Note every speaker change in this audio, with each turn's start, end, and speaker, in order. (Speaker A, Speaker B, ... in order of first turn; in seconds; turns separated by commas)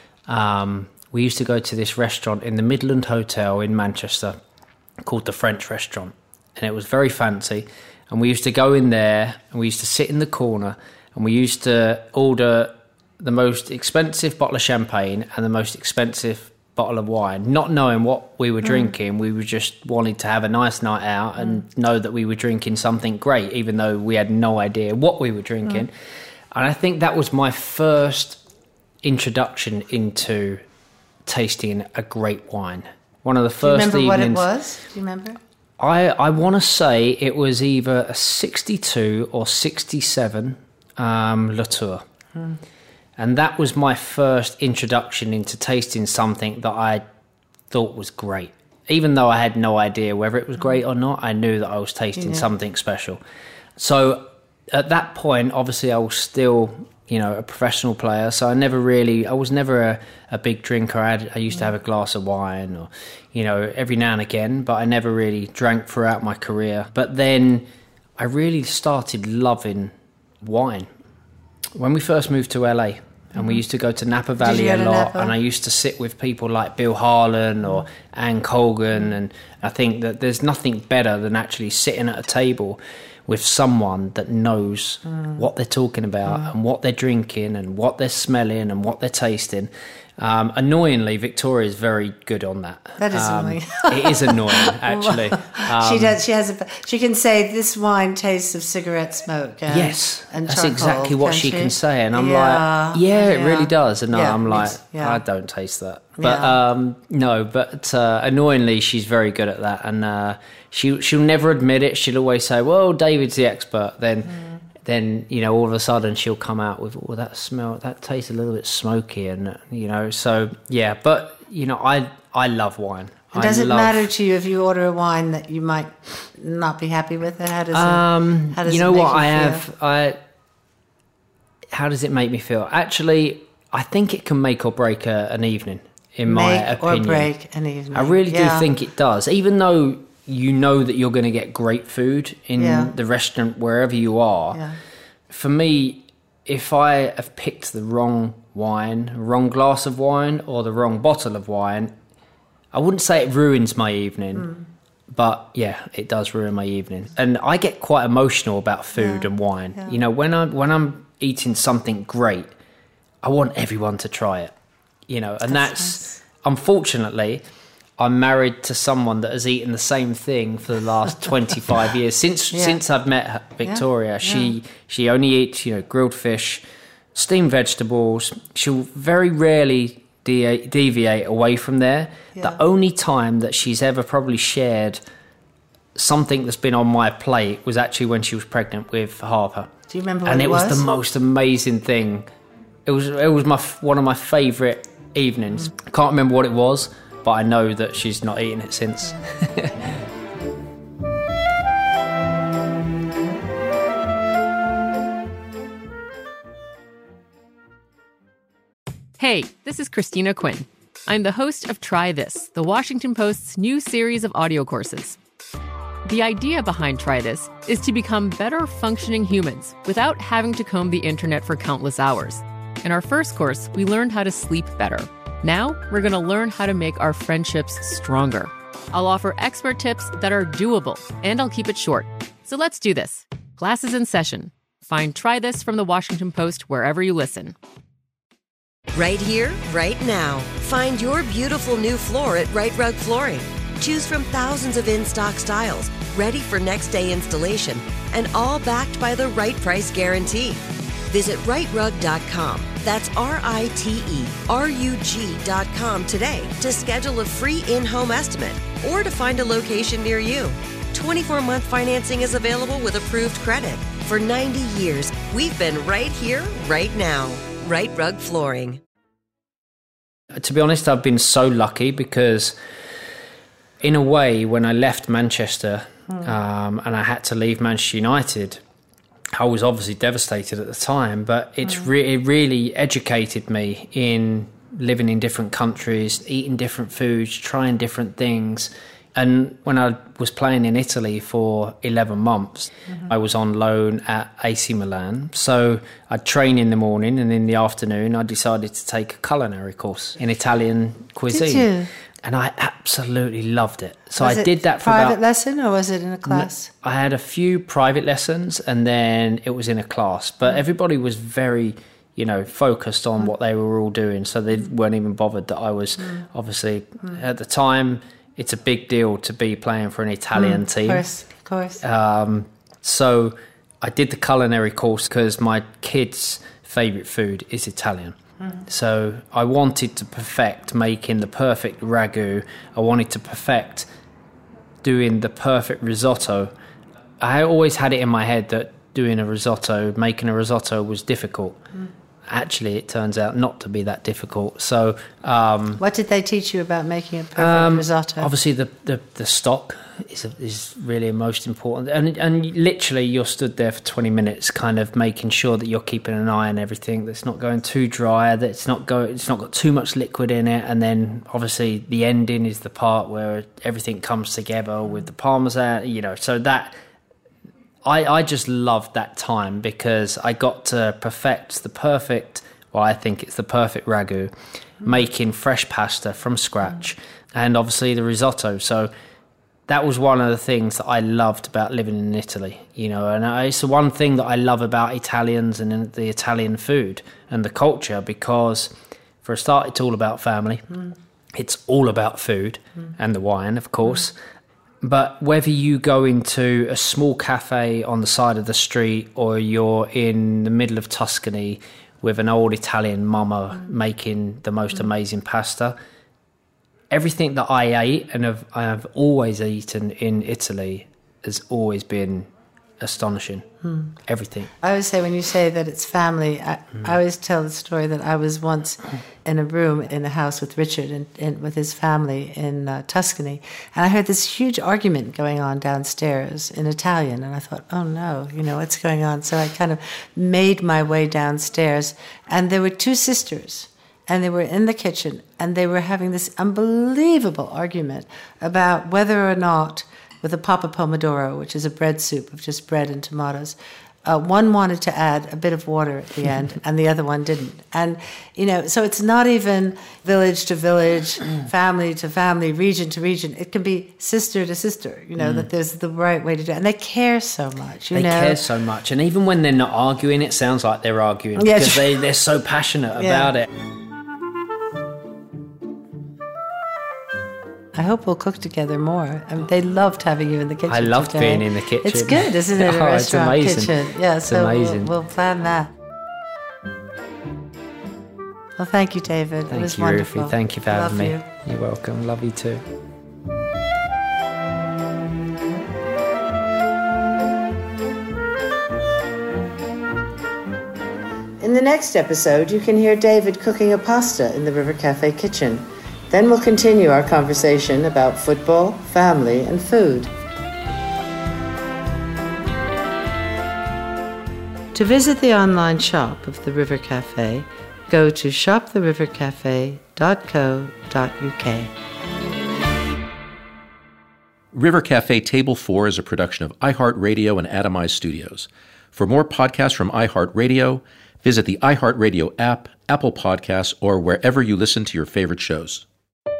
Speaker A: 0.3-4.4, Speaker A: 5.0-25.9, Speaker A: 26.5-28.4, Speaker A: 29.0-30.6, Speaker A: 31.2-34.5, Speaker B: 33.6-35.4, Speaker A: 35.8-42.0, Speaker A: 43.2-47.0, Speaker A: 47.7-53.2, Speaker A: 53.8-70.9, Speaker A: 71.7-96.2, Speaker B: 74.4-75.3, Speaker B: 93.0-105.2, Speaker A: 99.7-124.1, Speaker B: 106.2-106.6, Speaker B: 123.3-129.7, Speaker A: 127.7-130.2, Speaker A: 131.7-137.3, Speaker B: 136.2-138.7, Speaker A: 137.9-144.6, Speaker B: 142.6-142.9, Speaker A: 145.3-151.9, Speaker A: 152.7-154.5, Speaker A: 155.1-162.5, Speaker A: 163.2-164.5, Speaker A: 165.1-167.4, Speaker A: 168.0-176.6, Speaker A: 177.1-185.0, Speaker A: 185.9-189.7, Speaker B: 189.9-190.8, Speaker A: 190.2-192.3, Speaker A: 192.8-199.9, Speaker C: 209.2-215.2, Speaker C: 216.0-237.5, Speaker D: 238.9-268.8, Speaker A: 270.3-272.6, Speaker A: 273.8-278.6, Speaker A: 279.3-305.2, Speaker B: 301.3-301.9, Speaker B: 304.2-306.7, Speaker A: 306.2-321.0, Speaker B: 320.3-321.8, Speaker A: 321.8-328.1, Speaker A: 328.7-333.9, Speaker A: 334.8-336.5, Speaker A: 337.2-341.6, Speaker A: 342.3-345.8, Speaker B: 345.8-348.3, Speaker A: 347.4-366.8, Speaker A: 367.8-378.9, Speaker A: 379.7-390.8, Speaker A: 391.3-394.2, Speaker A: 394.8-405.8, Speaker A: 406.9-413.5, Speaker B: 413.6-413.9, Speaker A: 414.0-414.5, Speaker B: 414.6-458.4, Speaker A: 455.2-455.5, Speaker A: 457.9-463.5, Speaker B: 461.4-461.9, Speaker B: 463.0-463.3, Speaker B: 467.7-475.7, Speaker A: 470.7-474.9, Speaker B: 478.6-481.2, Speaker A: 479.5-482.6, Speaker B: 491.4-500.1, Speaker B: 504.7-511.7, Speaker E: 514.5-525.8